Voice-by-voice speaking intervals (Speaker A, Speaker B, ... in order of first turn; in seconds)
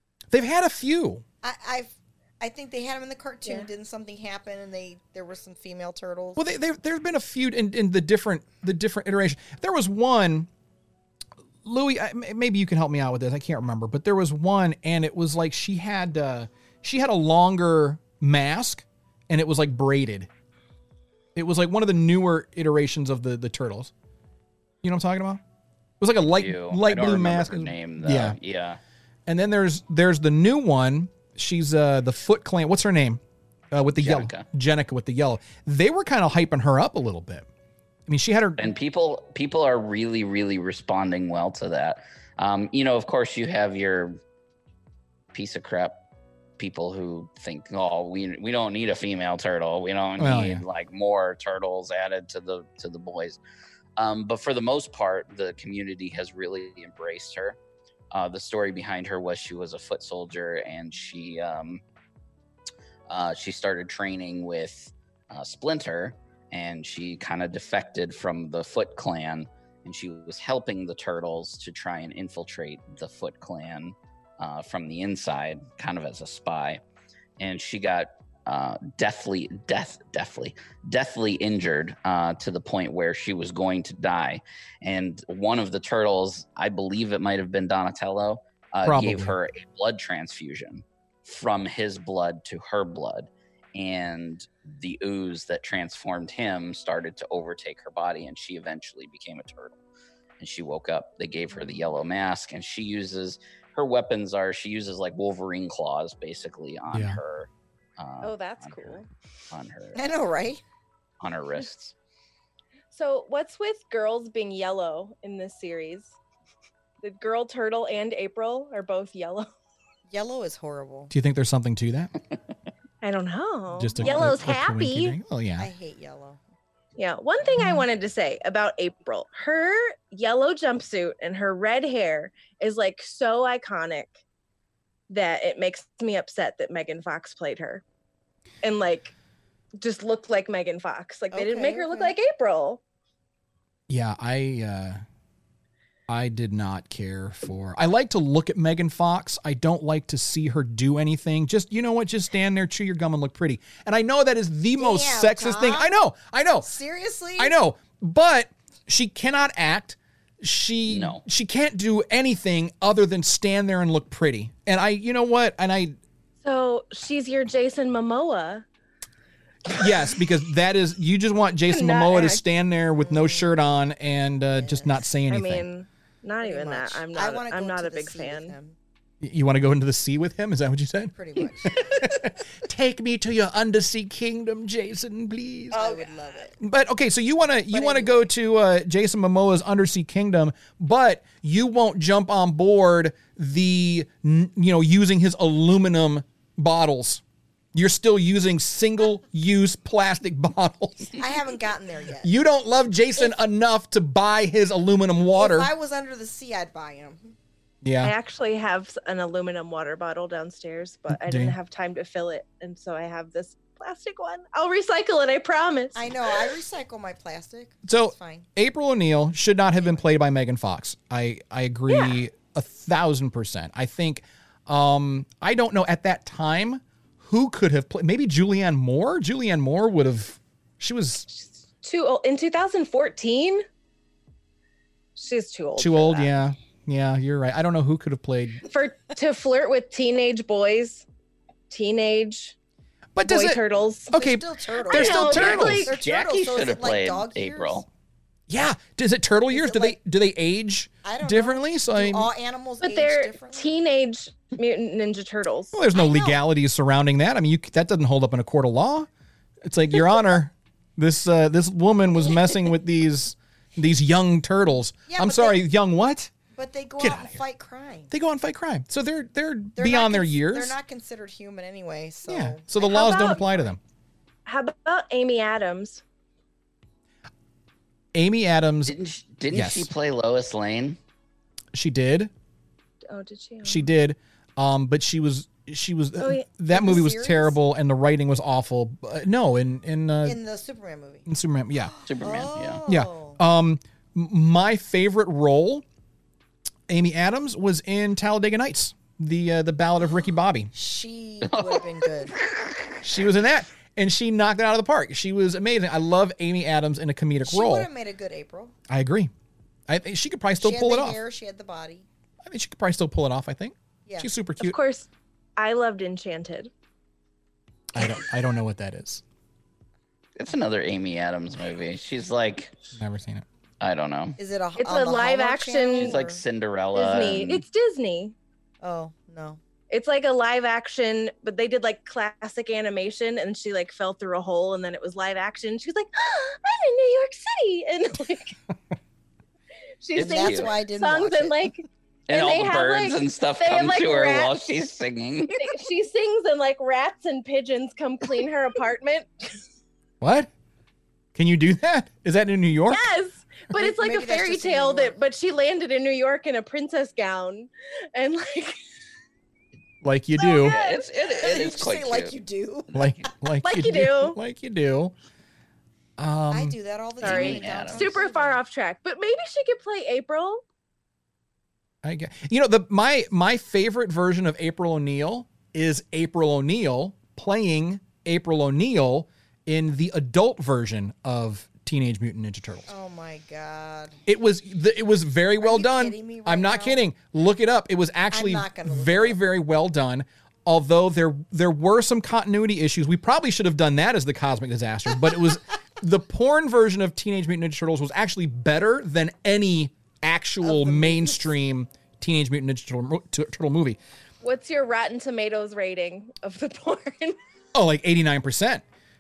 Speaker A: 0.3-1.2, 6.4-10.5, 11.6-20.3, 21.3-23.9, 24.8-25.4, 26.0-28.4, 29.3-33.2, 33.7-37.5, 38.1-38.7, 50.2-50.6, 88.8-89.3, 106.9-107.2, 121.1-122.1, 123.7-125.7, 143.9-145.0, 146.1-156.7, 157.4-166.0, 169.7-175.6, 179.2-185.8, 186.6-197.2, 197.7-201.1, 202.2-205.7, 207.8-208.1, 211.1-211.6, 217.8-231.2, 235.8-238.6, 243.1-245.9, 248.5-252.3, 255.7-259.1, 259.6-266.3, 267.0-267.4, 268.1-270.8, 272.3-273.8, 278.1-278.9, 279.5-279.9, 281.7-282.3, 283.6-290.4, 291.3-291.9, 292.9-295.8, 296.9-300.7, 303.0-307.9, 308.9-309.3, 309.9-311.2, 312.4-314.8, 317.9-319.2, 322.9-323.4, 350.2-350.5, 351.3-353.1, 360.0-360.8, 362.9-365.1, 366.2-366.8, 372.0-382.9, 384.3-404.0, 407.7-408.8
Speaker B: 1.4-6.4, 109.9-110.6, 120.1-121.1, 125.6-126.4, 141.3-142.1, 154.8-155.9, 156.6-157.5, 173.0-173.8, 174.5-175.0, 176.4-178.8, 181.1-182.3, 185.7-186.6, 187.7-188.3, 201.2-202.3, 205.3-207.3, 215.9-218.4, 244.1-247.8, 249.5-249.9, 251.0-253.7, 255.9-256.4, 265.1-265.6, 266.5-268.1, 269.8-272.6, 286.7-287.6, 290.2-291.2, 291.9-293.4, 300.7-302.3, 307.4-308.7, 310.6-312.1, 324.4-326.4, 328.8-329.6, 340.2-341.7, 353.7-355.1, 361.4-363.0, 366.5-368.6, 382.9-384.2, 385.6-387.0, 388.3-389.4, 400.6-401.5
Speaker C: 26.3-28.8, 33.9-34.5, 38.6-44.2, 45.3-46.0, 46.6-53.4, 54.0-57.6, 58.1-61.8, 63.1-76.8, 77.4-99.8, 100.4-110.0, 111.2-111.9, 160.9-161.2, 245.4-247.8, 278.9-281.0, 292.1-292.8, 301.4-303.0, 320.4-322.8, 323.8-324.4, 325.9-327.6, 340.1-340.7, 342.3-345.6, 360.6-362.3, 367.2-368.2
Speaker D: 108.2-109.1, 112.9-116.1, 117.0-119.5, 123.0-125.2, 127.0-134.2, 135.1-137.8, 138.6-139.1, 139.8-142.8, 166.4-168.6, 171.7-172.4, 175.3-178.5, 185.7-186.1, 208.0-216.5, 221.9-222.2, 231.3-233.6, 235.2-236.3, 238.7-241.1, 241.7-242.5, 243.2-244.1, 244.8-245.9, 252.8-255.8, 272.8-273.4, 274.4-276.0, 283.1-283.9, 286.2-286.4, 314.6-316.7, 324.8-326.2, 326.9-328.3, 329.9-338.6, 340.0-344.6, 345.5-349.6, 352.9-358.8, 360.4-361.1, 363.6-364.4, 367.2-370.6, 404.4-407.4